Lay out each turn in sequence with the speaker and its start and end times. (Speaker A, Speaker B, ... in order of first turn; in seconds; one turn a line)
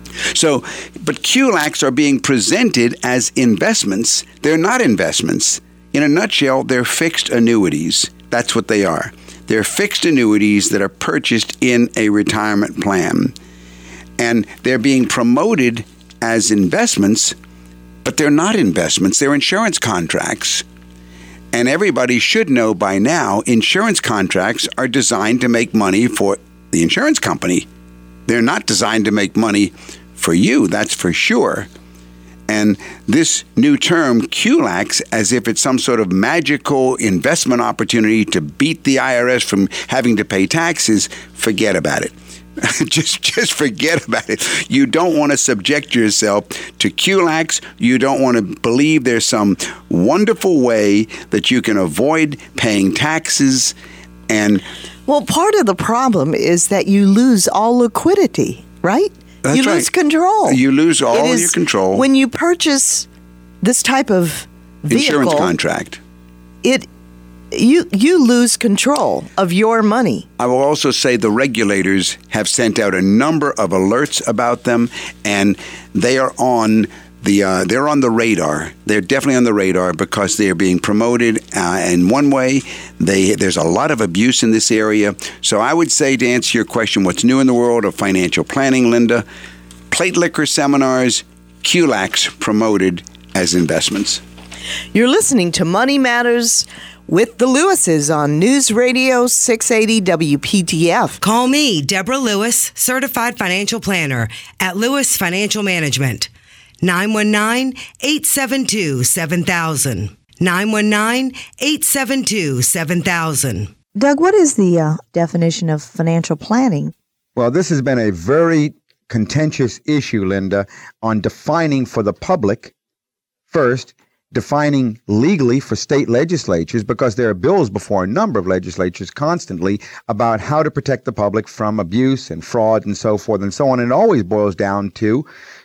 Speaker A: 0.3-13.3
Speaker A: 14.2-17.4
Speaker A: 18.0-20.6
Speaker A: 21.5-27.7
Speaker A: 28.3-31.7
Speaker A: 32.5-53.7
Speaker A: 54.3-54.6
Speaker B: 55.0-60.6
Speaker A: 59.4-59.9
Speaker A: 60.5-62.0
Speaker B: 61.1-63.1
Speaker B: 63.6-65.5
Speaker A: 64.9-66.0
Speaker B: 66.6-66.9
Speaker B: 67.5-70.3
Speaker A: 70.4-89.2
Speaker A: 89.9-94.2
Speaker B: 94.9-101.2
Speaker C: 101.2-106.3
Speaker C: 106.8-113.7
Speaker D: 114.0-116.9
Speaker E: 117.3-122.7
Speaker E: 123.5-135.3